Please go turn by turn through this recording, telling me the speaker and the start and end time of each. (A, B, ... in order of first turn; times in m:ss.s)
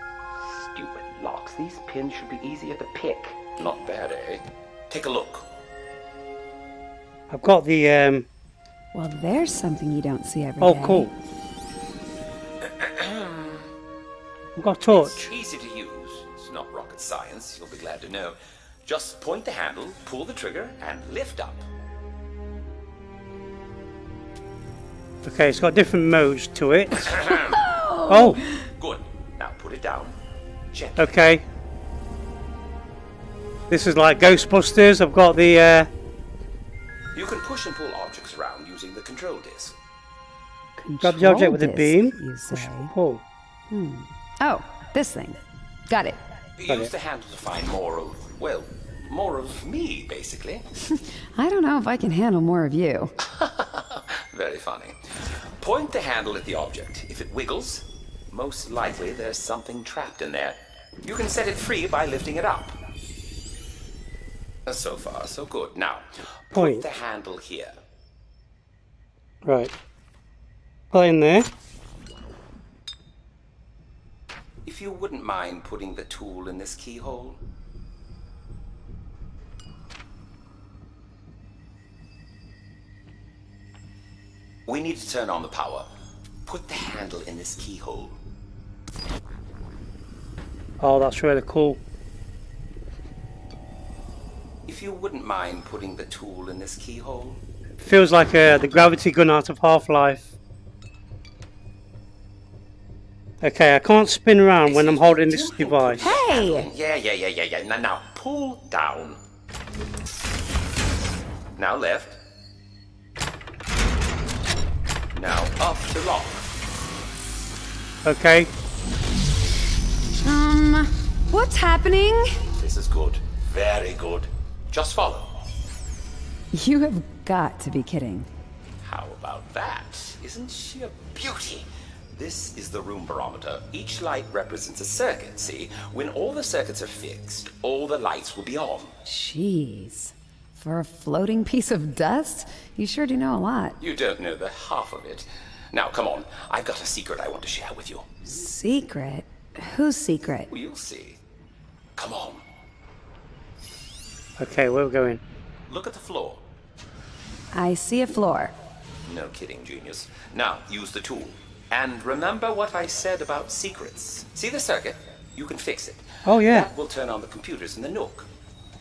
0:00.5-0:05.5 A
0:07.3-0:08.3 B
0:08.9-0:11.1 C
0:10.6-0:11.1 B
0:12.6-0:13.7 A
0:14.6-0:15.3 B
0:14.9-0:21.7 A
0:25.2-0:27.2 B
0:27.1-0:27.6 A
0:27.3-0:28.7 C
0:28.1-0:28.4 B
0:28.6-0:30.2 A
0:30.7-0:31.1 A
0:31.0-0:31.4 B
0:33.7-0:35.9 B
0:37.1-0:39.8 A
0:40.8-0:42.9 C
0:41.0-0:43.2 B
0:43.7-0:46.2 C
0:46.6-0:50.6 A
0:50.9-0:53.2 C
0:53.2-1:02.8 A
1:04.7-1:07.8 A
1:06.5-1:06.9 B
1:09.4-1:09.7 B
1:10.9-1:11.5 B
1:14.6-1:17.4 A
1:24.7-1:25.9 A
1:26.5-1:28.2 A
1:30.8-1:31.8 B
1:34.7-1:37.4 A
1:37.8-1:40.4 B
1:43.4-1:46.0 B
1:44.6-1:49.2 A
1:46.0-1:46.7 C
1:51.6-1:52.2 A
1:55.1-1:56.5 A
1:58.0-1:58.5 B
2:00.2-2:02.4 C
2:02.5-2:05.4 A
2:06.5-2:08.3 C
2:08.8-2:18.9 A
2:19.0-2:23.8 C
2:23.8-2:28.1 A
2:28.2-2:30.5 C
2:30.5-2:31.2 A
2:32.0-2:32.4 A
2:34.4-2:35.2 B
2:35.7-2:36.4 A
2:37.5-2:38.5 C
2:39.1-2:48.3 A
2:46.2-2:46.7 B